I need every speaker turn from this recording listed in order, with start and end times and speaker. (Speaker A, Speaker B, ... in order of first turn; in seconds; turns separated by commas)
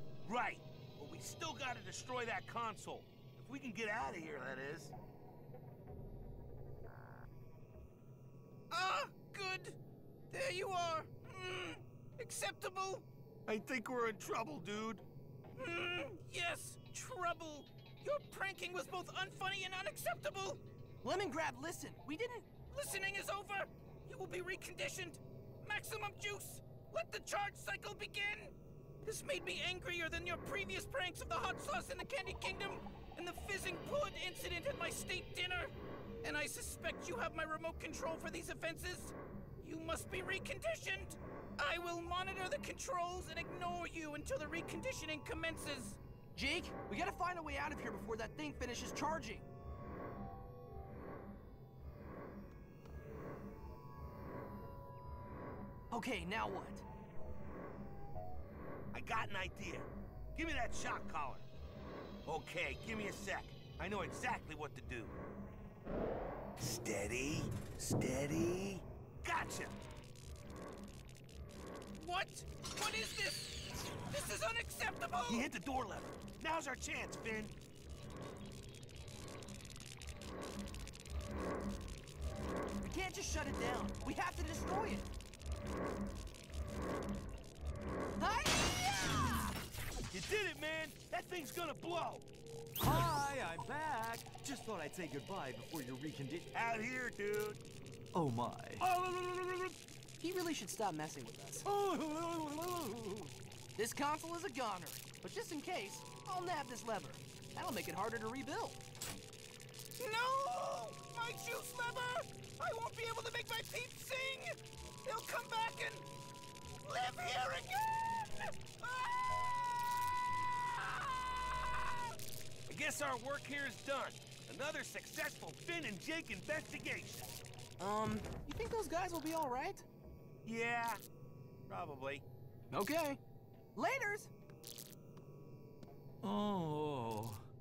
Speaker A: 0.2-4.9, Speaker B: 8.7-9.8, Speaker B: 10.3-13.1, Speaker A: 13.5-15.1, Speaker B: 15.6-20.6, Speaker C: 21.0-22.5, Speaker B: 22.7-35.7, Speaker B: 36.2-46.0, Speaker C: 46.4-49.5, Speaker C: 55.9-56.9, Speaker A: 58.9-61.5, Speaker A: 62.3-65.2, Speaker A: 66.6-69.9, Speaker B: 72.0-75.5, Speaker A: 75.3-77.5, Speaker C: 82.8-85.1, Speaker C: 88.2-89.5, Speaker A: 90.1-92.3, Speaker D: 92.8-96.5, Speaker A: 96.5-97.6, Speaker D: 98.1-98.9, Speaker C: 100.2-101.7, Speaker D: 101.7-103.3, Speaker C: 103.8-108.8, Speaker B: 110.0-116.1, Speaker B: 116.8-121.9, Speaker A: 122.7-127.4, Speaker C: 127.8-129.9, Speaker A: 130.5-131.0, Speaker A: 131.7-132.2, Speaker C: 132.7-133.2, Speaker C: 133.8-134.3, Speaker D: 136.2-137.4